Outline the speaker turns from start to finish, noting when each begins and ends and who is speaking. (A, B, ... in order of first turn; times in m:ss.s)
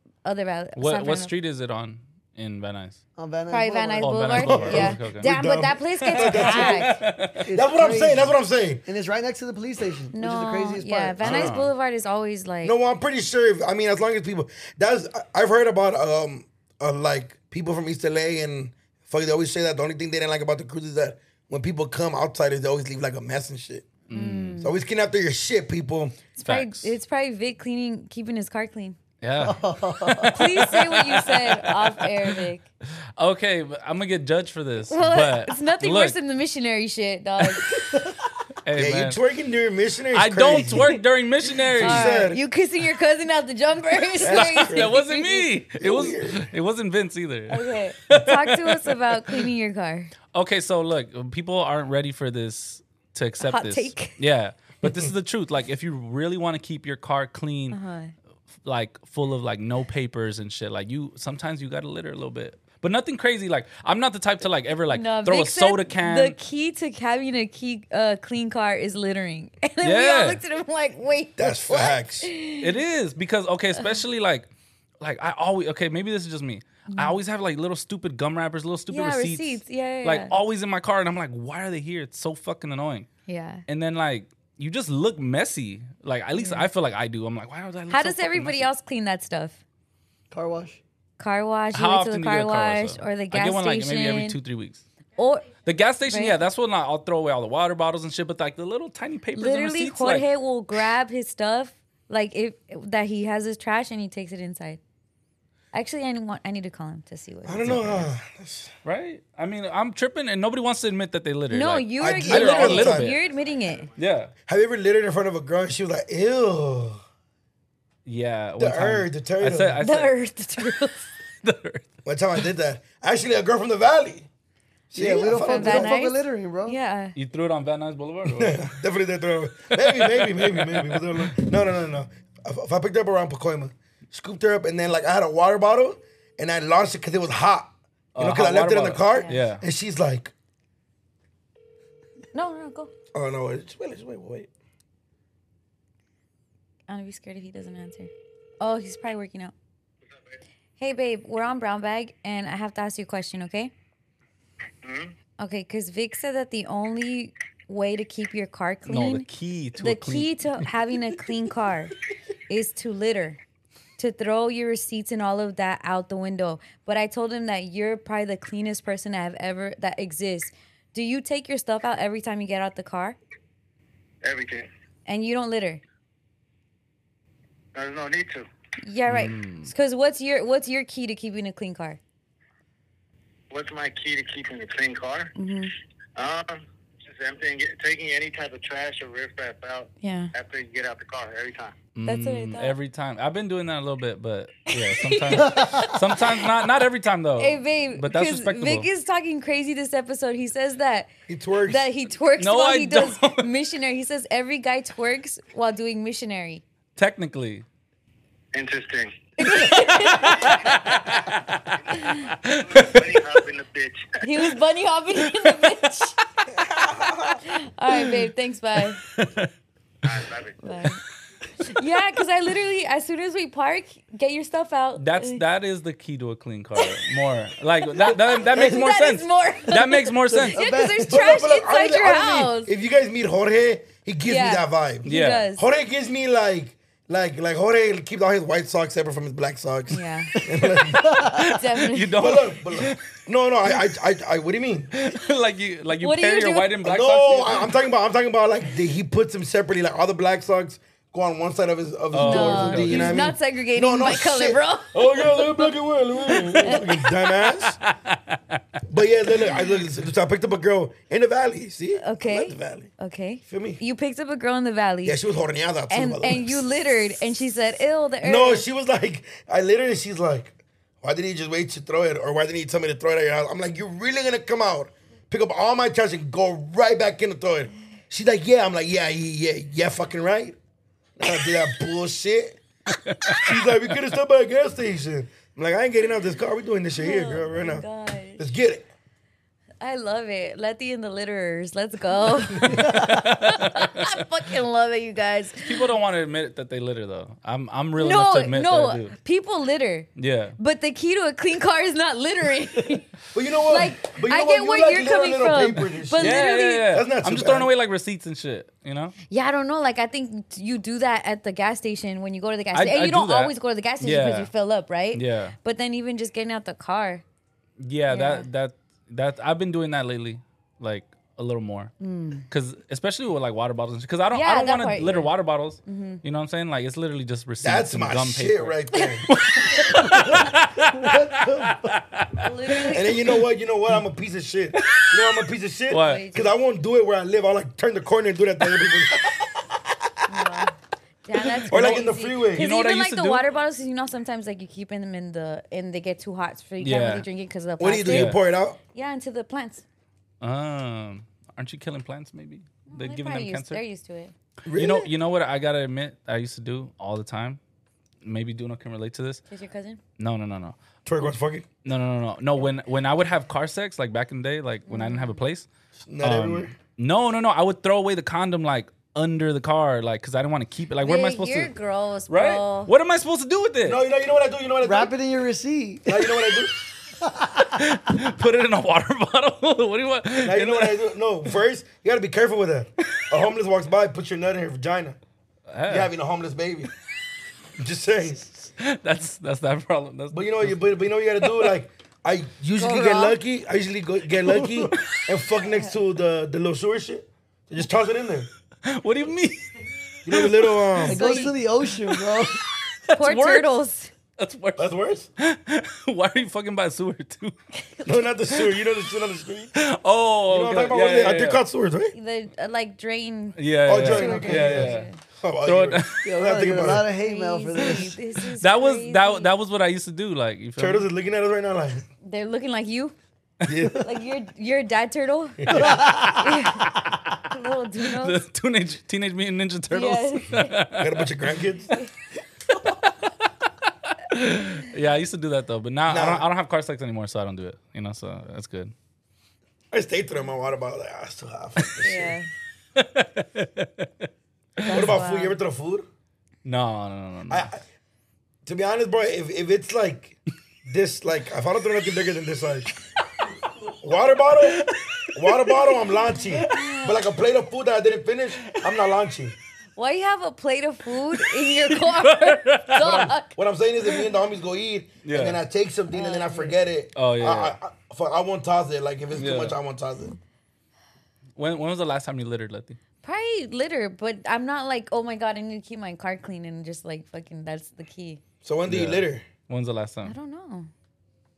0:00.2-0:01.3 A
0:00.8-0:03.0 B
0:03.2-0:04.7 C
0:03.5-0:07.0 A
0:04.0-0:05.3 B
0:04.4-0:07.0 D
0:06.0-0:07.5 B
0:07.4-0:08.3 C
0:07.5-0:08.8 D
0:08.8-0:11.4 C
0:10.1-0:12.8 A
0:11.2-0:11.7 B
0:12.6-0:23.9 D
0:24.1-0:24.6 B
0:24.1-0:24.7 A
0:24.6-0:26.2 D
0:26.4-0:29.0 A
0:26.4-0:26.9 B
0:29.2-0:32.4 B
0:29.4-0:30.5 C
0:30.3-0:32.6 A
0:33.2-0:36.2 B
0:34.9-0:37.8 A
0:37.9-0:38.2 C
0:38.6-0:39.2 B
0:38.8-0:41.0 D
0:40.1-0:42.2 B
0:41.7-0:42.4 D
0:41.8-0:45.5 A
0:44.2-0:45.0 D
0:44.2-0:49.5 B
0:45.8-0:46.5 D
0:47.5-0:50.1 A
0:50.3-0:57.8 B
0:53.4-0:54.2 A
0:57.7-0:58.1 A
0:58.6-1:06.4 B
1:04.9-1:12.7 A
1:09.8-1:10.4 B
1:11.4-1:12.3 D
1:12.6-1:14.5 B
1:15.0-1:23.1 B
1:16.9-1:17.2 A
1:18.9-1:20.3 A
1:23.3-1:23.6 A
1:23.7-1:28.7 B
1:26.3-1:26.7 A
1:27.9-1:29.6 A
1:30.3-1:30.8 C
1:31.2-1:34.4 A
1:31.7-1:34.8 B
1:35.2-1:35.5 A
1:35.6-1:40.3 B
1:36.1-1:36.4 A
1:39.3-1:44.8 A
1:45.7-1:48.0 A
1:47.4-1:48.7 D
1:47.6-1:48.1 B
1:48.8-1:53.2 B
1:51.5-1:53.9 A
1:52.0-1:53.2 D
1:54.0-1:54.3 B
1:54.5-1:57.0 D
1:58.0-2:00.6 B
1:58.6-1:59.8 D
1:59.8-2:01.1 A
2:01.4-2:01.9 B
2:02.0-2:04.3 D
2:04.9-2:05.9 D
2:04.9-2:06.8 C
2:05.2-2:07.2 A
2:07.2-2:08.7 B
2:08.2-2:20.3 D
2:09.7-2:11.3 B
2:18.1-2:19.6 B
2:19.1-2:19.4 A
2:22.3-2:22.9 A
2:23.1-2:24.5 D
2:26.9-2:29.5 A
2:30.8-2:33.7 A
2:34.8-2:35.1 E
2:35.4-2:39.3 A
2:38.9-2:40.7 B
2:39.8-2:41.9 A
2:42.5-2:43.4 A
2:44.0-2:53.2 A
2:54.2-2:54.7 E
2:55.0-2:55.8 A
2:57.7-2:58.4 E
2:58.8-3:02.0 A
2:59.1-2:59.7 B
3:03.5-3:05.3 E
3:05.4-3:05.7 A
3:06.2-3:11.7 E
3:10.0-3:10.3 A
3:11.9-3:18.9 B
3:12.0-3:12.8 A
3:14.7-3:16.5 A
3:15.4-3:15.9 C
3:17.4-3:21.1 A
3:21.3-3:21.9 D
3:21.6-3:26.6 A
3:22.4-3:23.5 B
3:27.0-3:27.6 B
3:28.5-3:29.1 E
3:29.4-3:30.6 A
3:29.5-3:33.4 B
3:31.9-3:32.3 A
3:32.5-3:34.1 E
3:34.2-3:36.2 A
3:35.2-3:35.7 B
3:36.8-3:37.2 D
3:37.2-3:39.0 A
3:39.0-3:39.5 B
3:40.0-3:40.6 E
3:40.6-3:41.0 A
3:41.6-3:45.4 A
3:45.0-3:50.6 B
3:46.8-3:47.0 A
3:47.9-3:52.7 A
3:48.5-3:48.8 D
3:50.3-3:51.1 C
3:51.1-3:55.0 D
3:54.2-3:55.6 A
3:55.0-3:55.5 B
3:55.6-4:01.1 D
3:59.9-4:00.3 A
4:00.9-4:01.4 C
4:01.0-4:03.0 B
4:01.4-4:02.2 A
4:02.1-4:04.9 D
4:04.9-4:07.7 B
4:06.0-4:06.7 A
4:06.8-4:17.8 D
4:12.1-4:13.3 B
4:12.1-4:15.4 A
4:16.3-4:18.6 B
4:16.6-4:17.0 A
4:18.9-4:22.9 D
4:22.0-4:25.2 A
4:23.4-4:23.8 D
4:25.0-4:26.7 D
4:25.9-4:28.6 A
4:28.2-4:40.6 D
4:41.2-4:42.6 D
4:43.0-4:43.5 B
4:43.3-4:47.8 D
4:47.0-4:48.4 A
4:48.4-4:48.9 D
4:49.8-4:55.9 A
4:52.7-4:54.2 B
4:55.6-4:59.2 B
4:58.0-5:03.1 A
5:00.2-5:00.6 B
5:03.3-5:07.7 D
5:03.7-5:06.9 A
5:06.2-5:09.1 B
5:09.3-5:17.2 A
5:12.7-5:14.5 B
5:15.1-5:15.5 B
5:17.8-5:21.9 B
5:18.1-5:18.5 A
5:22.0-5:22.4 A
5:22.5-5:33.1 B
5:24.3-5:25.3 A
5:25.8-5:26.2 A
5:27.6-5:29.3 D
5:31.0-5:31.8 C
5:32.4-5:33.1 A
5:32.9-5:39.4 D
5:34.7-5:35.2 B
5:35.9-5:36.2 B
5:35.9-5:36.5 A
5:40.3-5:48.4 A
5:41.4-5:42.0 B
5:41.7-5:42.6 D
5:42.5-5:43.4 B
5:46.8-5:47.2 B
5:47.8-5:48.8 D
5:48.1-5:48.4 B
5:48.9-5:49.8 A
5:50.4-5:53.8 B
5:52.9-5:54.3 A
5:54.6-5:55.1 D
5:54.7-5:57.6 B
5:58.2-5:59.4 B
5:59.5-6:00.0 A
6:00.2-6:05.7 B
6:01.0-6:01.7 D
6:04.9-6:05.4 A
6:06.0-6:06.7 D
6:06.2-6:11.7 B
6:11.0-6:12.9 A
6:12.3-6:14.0 B
6:13.8-6:15.1 D
6:14.8-6:16.3 C
6:16.1-6:16.8 D
6:17.2-6:17.8 C
6:17.7-6:21.0 B
6:20.4-6:25.2 D
6:25.7-6:26.1 B
6:25.9-6:26.9 D
6:27.8-6:28.5 D
6:28.8-6:30.8 B
6:30.3-6:38.5 D
6:31.4-6:31.7 B
6:32.8-6:33.4 A
6:34.4-6:35.2 B
6:38.8-6:39.7 B
6:40.2-6:41.2 D
6:40.2-6:41.3 B
6:41.1-6:42.6 C
6:41.1-6:41.5 A
6:42.0-6:43.7 B
6:43.1-6:44.1 A
6:44.4-6:47.5 B
6:44.8-6:45.3 D
6:47.8-6:48.2 A
6:48.0-6:49.8 D
6:49.8-6:51.6 B
6:50.5-6:52.1 D
6:52.1-6:55.2 A
6:53.6-6:55.1 B
6:53.8-6:57.1 D
6:55.6-6:56.3 B
6:56.2-6:58.2 C
6:57.1-6:59.5 A
6:58.6-7:01.1 B
7:00.8-7:02.0 D
7:02.2-7:03.1 A
7:03.6-7:04.0 D
7:04.0-7:08.4 A
7:05.6-7:06.0 D
7:05.7-7:06.4 C
7:05.9-7:07.4 B
7:08.0-7:11.5 B
7:09.9-7:10.8 A
7:10.9-7:11.9 D
7:12.7-7:18.9 B
7:16.1-7:16.4 D
7:19.9-7:22.4 D
7:22.0-7:22.5 A
7:23.0-7:24.3 B
7:24.8-7:25.6 A
7:24.9-7:26.0 D
7:26.6-7:27.7 B
7:27.5-7:27.8 D
7:28.6-7:32.9 D
7:34.0-7:39.5 D
7:34.6-7:36.8 B
7:36.7-7:37.2 A
7:40.0-7:43.6 A
7:41.3-7:43.2 B
7:43.0-7:50.4 D
7:45.2-7:45.6 B
7:46.1-7:46.8 A
7:47.1-7:47.8 B
7:49.4-7:49.8 B
7:51.6-7:53.0 B
7:53.2-7:58.4 A
7:58.6-7:59.4 D
7:58.8-8:00.3 B
8:00.2-8:00.9 A